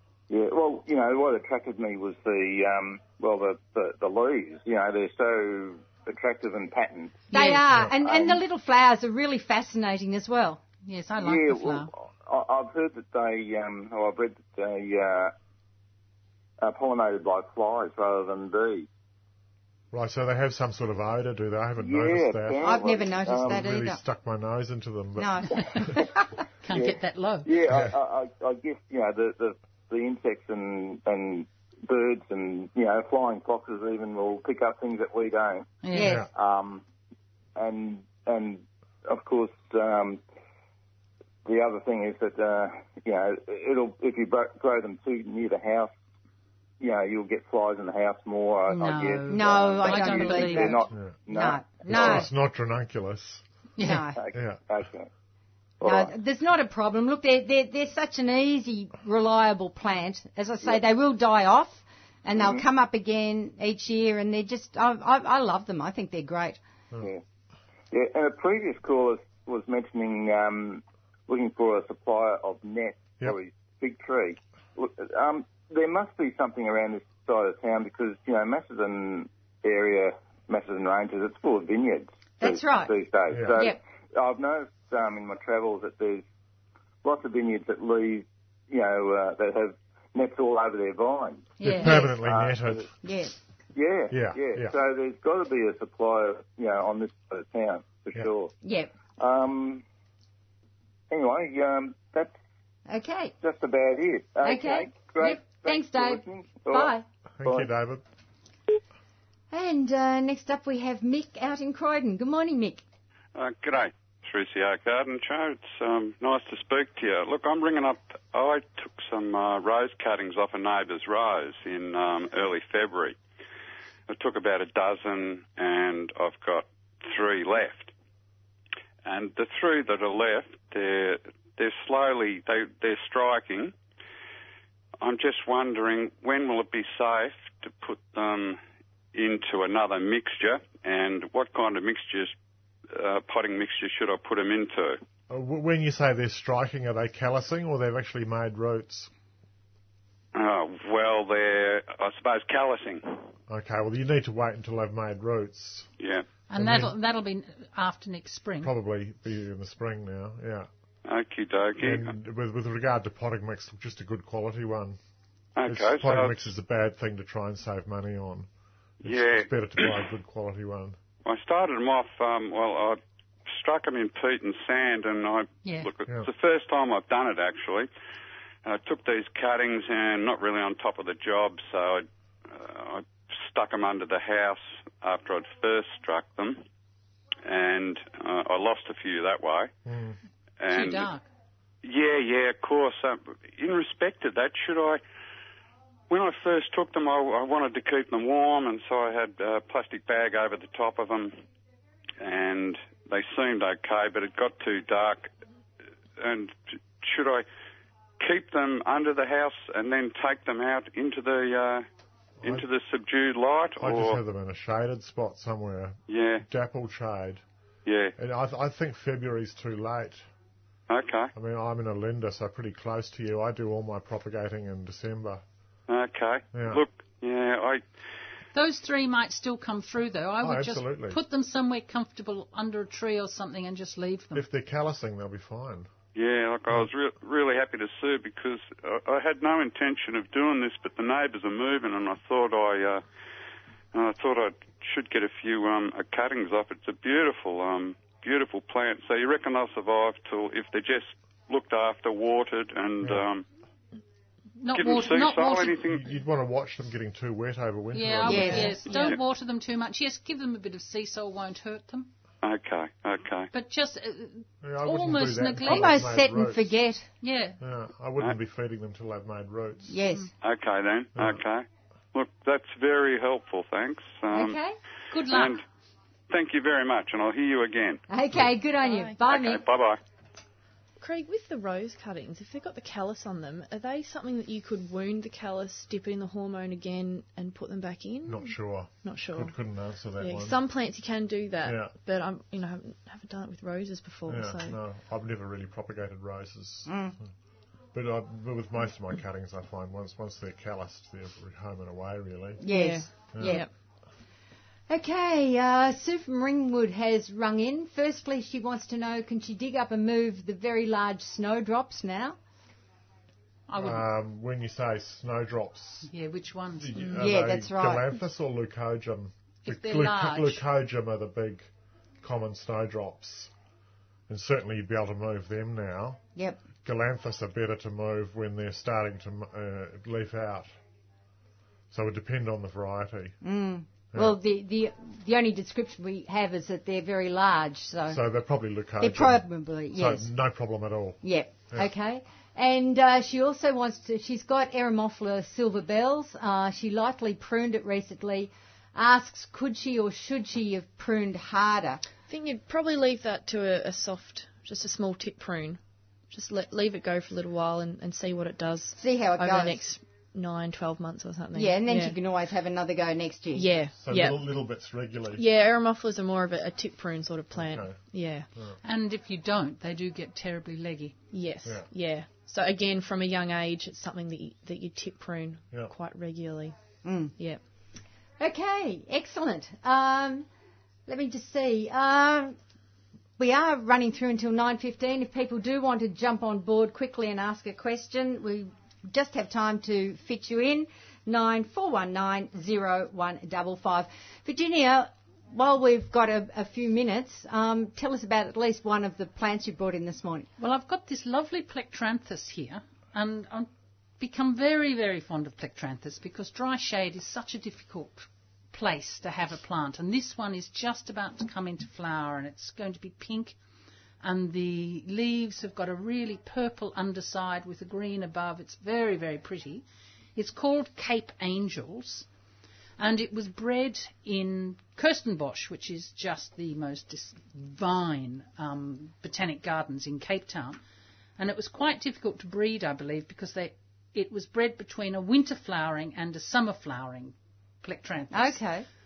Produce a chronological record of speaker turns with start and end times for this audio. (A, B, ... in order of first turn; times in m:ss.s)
0:00.3-0:07.3 A
0:07.3-0:07.6 B
0:07.3-0:10.6 C
0:07.9-0:08.4 A
0:10.8-0:11.9 B
0:11.2-0:15.3 A
0:16.6-0:18.9 A
0:19.9-0:26.0 D
0:21.8-0:23.6 A
0:22.6-0:24.0 C
0:25.2-0:26.3 C
0:26.6-0:27.5 B
0:26.7-0:35.7 A
0:27.7-0:27.9 D
0:35.8-0:36.2 B
0:35.9-0:36.2 C
0:36.0-0:36.3 D
0:36.3-0:36.8 A
0:37.6-0:40.2 A
0:41.4-0:45.9 A
0:46.8-0:52.3 A
0:48.7-0:50.8 B
0:49.3-0:52.3 C
0:50.9-0:51.2 D
0:51.8-0:53.4 D
0:53.8-0:54.1 B
0:53.8-0:54.2 C
0:54.2-0:55.1 A
0:54.3-0:54.6 D
0:55.8-0:56.1 A
0:55.8-1:06.6 C
1:02.4-1:02.6 A
1:07.9-1:26.2 A
1:22.4-1:22.9 C
1:23.3-1:23.6 D
1:27.0-1:31.6 A
1:31.6-1:32.1 B
1:31.6-1:32.9 D
1:32.1-1:32.9 A
1:33.0-1:33.3 C
1:33.7-1:38.5 A
1:34.1-1:34.7 D
1:38.6-1:38.9 C
1:39.2-1:39.8 A
1:41.1-1:42.3 A
1:42.9-1:43.3 C
1:43.4-1:46.9 A
1:44.4-1:47.0 C
1:47.4-1:48.0 D
1:47.4-1:47.7 A
1:49.5-1:52.8 C
1:53.3-2:03.2 E
2:04.1-2:07.9 E
2:09.0-2:13.7 E
2:15.0-2:18.6 E
2:19.1-2:22.3 E
2:22.9-2:25.0 E
2:25.3-2:29.1 D
2:30.3-2:33.3 E
2:33.5-2:35.9 D
2:36.0-2:36.2 E
2:36.5-2:38.7 B
2:36.5-2:36.9 D
2:38.6-2:40.7 D
2:41.0-2:42.1 E
2:41.8-2:45.0 D
2:45.6-2:46.3 E
2:45.6-2:48.5 D
2:49.0-2:51.0 D
2:49.0-2:49.9 E
2:51.2-2:57.9 E
2:55.6-2:55.9 B
2:58.6-3:06.6 E
3:07.4-3:09.7 E
3:09.8-3:10.2 D
3:10.6-3:11.1 E
3:10.7-3:11.2 B
3:11.8-3:15.0 E
3:16.1-3:21.4 E
3:22.2-3:25.3 E
3:26.2-3:27.4 E
3:28.2-3:31.8 E
3:32.4-3:32.7 D
3:32.4-3:34.2 E
3:33.8-3:37.4 D
3:36.1-3:36.4 E
3:37.8-3:38.1 E
3:38.2-3:40.2 D
3:40.9-3:41.3 E
3:41.3-3:45.4 D
3:45.9-3:47.8 E
3:46.5-3:46.8 D
3:48.5-3:54.4 B
3:50.4-3:51.2 D
3:54.3-3:55.9 D
3:56.1-4:03.0 E
4:03.9-4:13.4 E
4:14.6-4:15.8 B
4:14.7-4:16.0 E
4:15.8-4:19.1 D
4:17.9-4:22.1 B
4:18.2-4:18.8 C
4:18.9-4:19.2 E
4:22.4-4:23.5 E
4:23.5-4:26.0 B
4:24.6-4:26.7 D
4:25.6-4:27.1 C
4:27.2-4:27.6 B
4:27.6-4:30.0 D
4:29.9-4:30.3 C
4:30.4-4:34.6 E
4:31.1-4:31.4 D
4:34.3-4:34.8 C
4:35.1-4:35.6 B
4:35.2-4:35.6 E
4:36.3-4:38.0 E
4:38.1-4:39.6 C
4:39.2-4:40.0 E
4:41.0-4:49.5 F
4:48.2-4:50.6 D
4:50.2-4:54.8 F
4:51.6-4:51.9 D
4:54.3-4:57.1 D
4:56.9-4:57.2 C
4:57.9-5:03.6 D
5:02.6-5:03.6 C
5:02.7-5:03.7 F
5:04.9-5:12.4 C
5:13.7-5:14.1 B
5:13.8-5:16.1 D
5:16.0-5:17.2 B
5:16.8-5:21.7 D
5:17.1-5:18.1 C
5:19.6-5:20.6 B
5:22.2-5:23.5 D
5:24.3-5:26.2 D
5:26.8-5:30.7 D
5:31.9-5:33.3 D
5:33.4-5:38.2 C
5:34.1-5:34.4 D
5:38.1-5:41.9 D
5:39.0-5:40.3 C
5:41.2-5:52.0 C
5:52.3-5:55.8 F
5:56.3-6:02.2 F
5:59.0-5:59.8 C
6:01.5-6:03.6 C
6:03.5-6:04.4 F
6:04.0-6:05.4 D
6:05.3-6:08.5 F
6:07.5-6:08.0 D
6:08.8-6:11.2 B
6:11.3-6:16.7 F
6:17.0-6:17.3 C
6:18.4-6:20.5 C
6:21.1-6:22.6 C
6:23.4-6:40.5 C
6:40.6-6:53.6 B
6:54.2-6:59.8 B
7:00.3-7:02.2 B
7:03.0-7:10.8 B
7:11.4-7:18.6 B
7:18.3-7:18.8 C